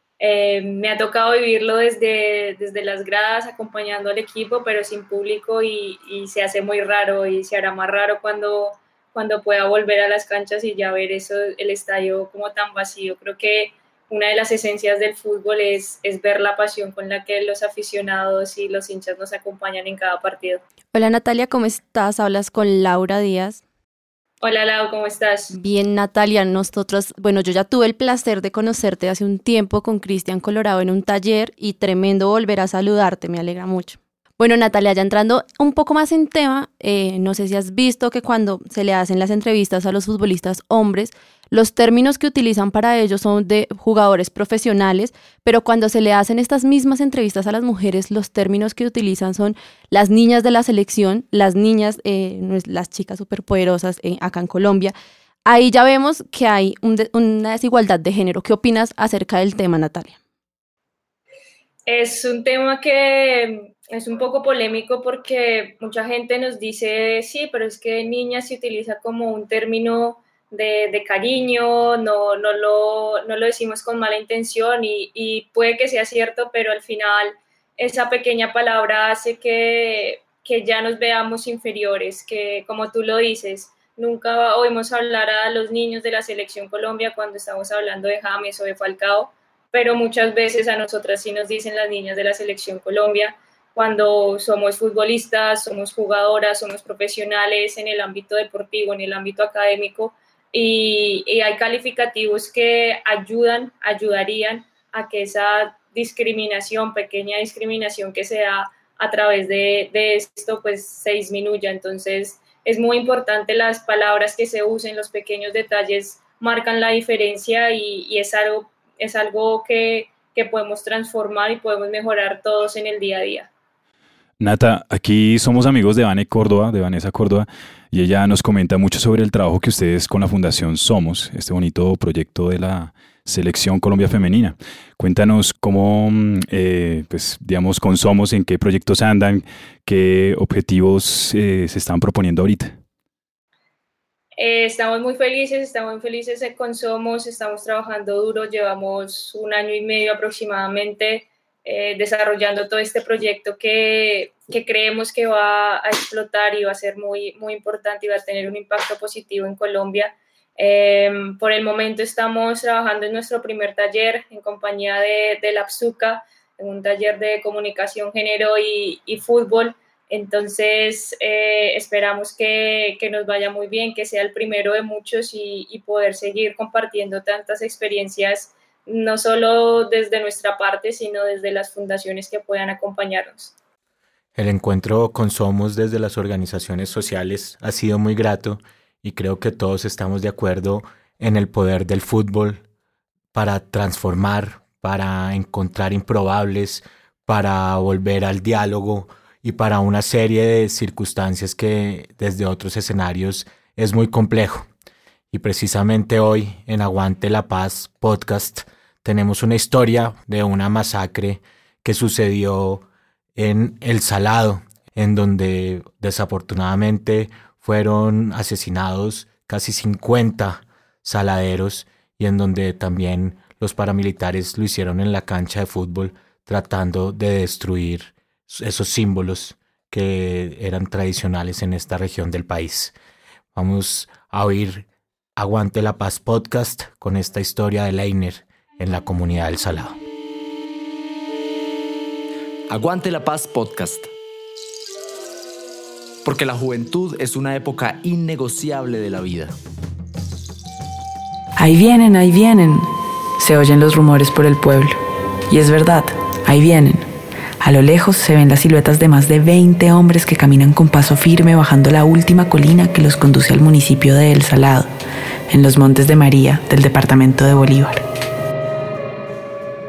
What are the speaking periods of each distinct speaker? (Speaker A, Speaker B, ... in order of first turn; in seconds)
Speaker A: 0.2-20.6, 24.4-25.5, 61.9-123.5, 144.4-183.5
Speaker B: 20.9-23.6, 25.5-54.9, 55.5-60.1
Speaker C: 124.4-142.8
Speaker D: 184.3-192.6, 193.3-204.7, 205.3-212.8, 213.3-232.9, 233.5-240.0
Speaker E: 242.7-244.1, 246.2-249.5
Speaker F: 251.6-252.9, 253.4-255.0, 255.5-257.1, 257.6-264.9, 265.5-268.0